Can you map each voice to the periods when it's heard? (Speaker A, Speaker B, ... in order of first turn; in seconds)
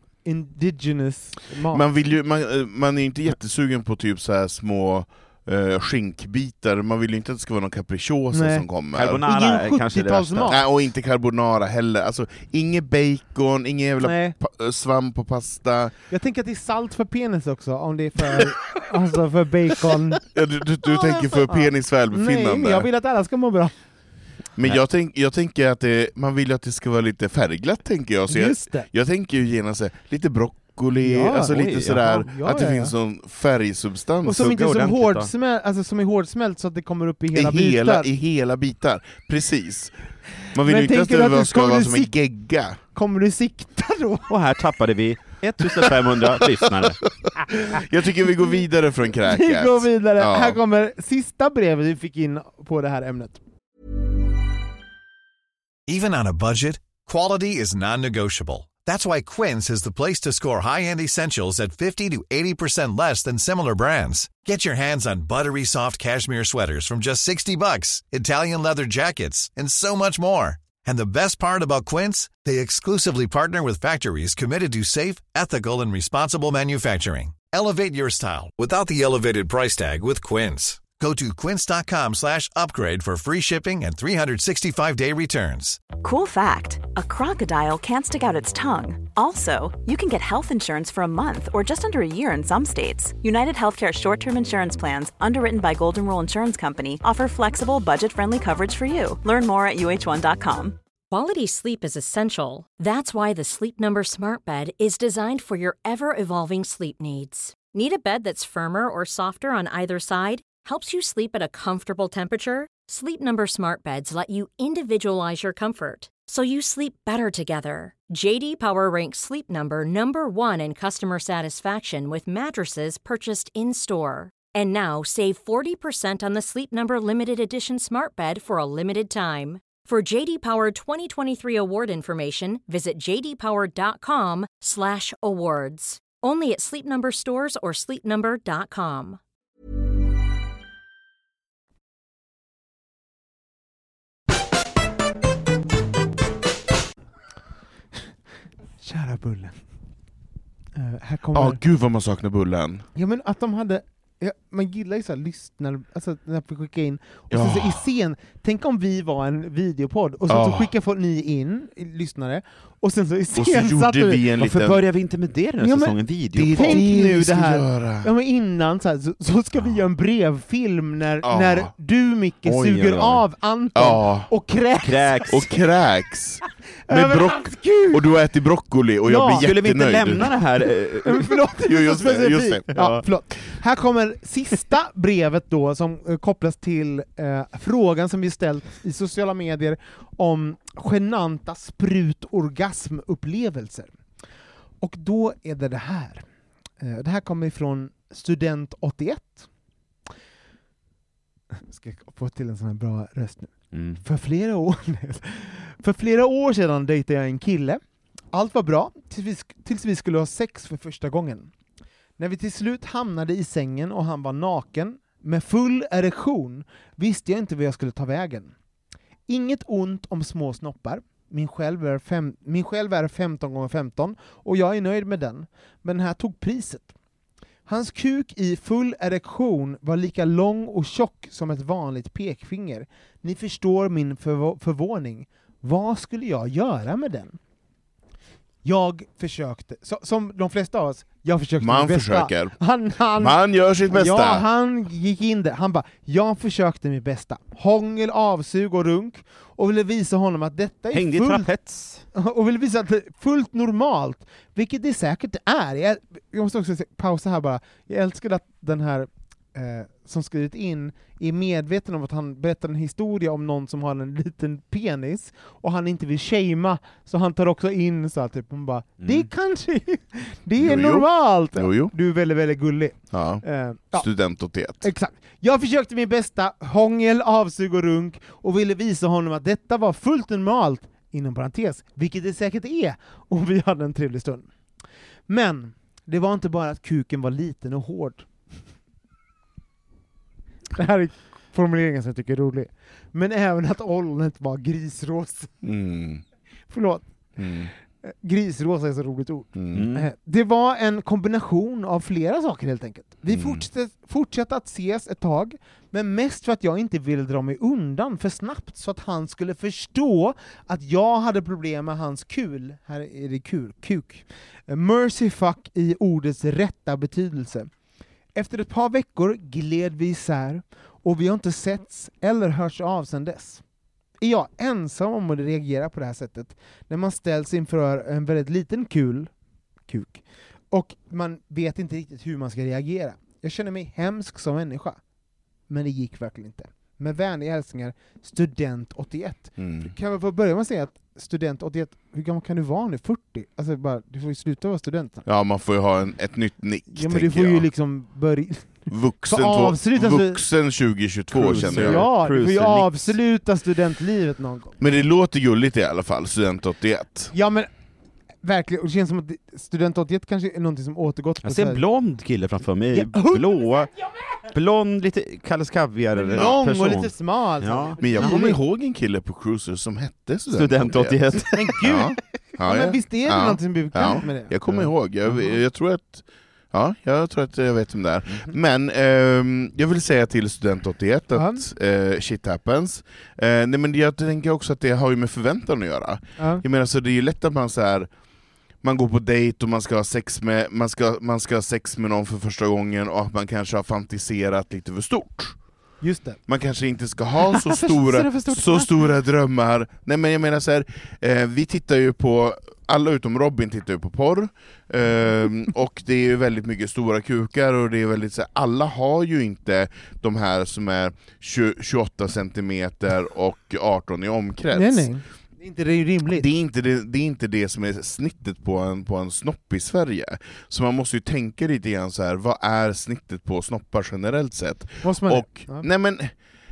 Speaker A: 0.2-1.8, 8.3-8.7, 9.2-10.6, 14.0-14.3, 16.1-20.2, 20.9-23.7, 28.3-28.9, 31.0-32.9, 34.2-38.1, 40.6-42.1, 42.9-44.3, 49.2-53.4, 148.8-149.6, 150.7-151.6, 152.9-164.2, 165.6-166.0, 166.5-175.5, 176.9-178.1, 179.1-179.5, 181.0-193.9, 194.8-196.2, 196.8-199.5, 201.7-207.8, 208.3-211.5, 212.2-218.5, 219.3-226.9, 227.7-237.4, 238.6-251.5, 252.1-274.1, 274.8-284.5, 285.3-288.3, 290.7-295.6, 296.7-297.0, 298.0-317.7, 318.3-323.6, 324.2-329.3, 329.9-335.0, 335.7-345.2, 346.9-350.4, 351.5-354.8, 357.3-357.7, 358.4-361.8, 362.9-363.5, 366.1-368.6, 371.5-374.8, 381.4-381.6, 386.4-386.6, 396.0-396.4, 397.4-398.9, 414.7-416.5, 425.0-425.9
Speaker B: 1.7-9.2, 10.4-15.9, 20.3-22.9, 24.6-34.5, 37.3-39.9, 40.5-42.8, 47.2-50.6, 151.3-152.8, 157.3-157.8, 160.3-160.7, 163.3-164.8, 166.3-168.1, 171.2-171.7, 173.7-174.3, 175.3-180.4, 181.6-182.7, 241.6-242.6, 243.2-244.4, 270.6-271.9, 273.1-274.9, 295.6-296.2, 297.4-297.7, 299.5-299.8, 303.3-303.6, 339.6-339.9, 345.2-347.7, 348.9-352.0, 354.8-357.3, 368.0-388.1, 388.8-395.6, 396.5-415.1, 416.3-426.4
Speaker C: 8.9-10.6, 31.5-32.1, 34.3-35.3, 44.3-47.0, 164.4-166.8, 172.4-173.2, 174.8-175.5, 179.3-181.3, 182.7-183.0, 203.7-204.0, 250.9-252.0, 269.0-269.3, 299.7-300.1, 351.3-353.2, 361.4-368.2, 370.5-371.8
Speaker D: 55.9-85.9
Speaker E: 85.9-100.8
Speaker F: 101.1-139.2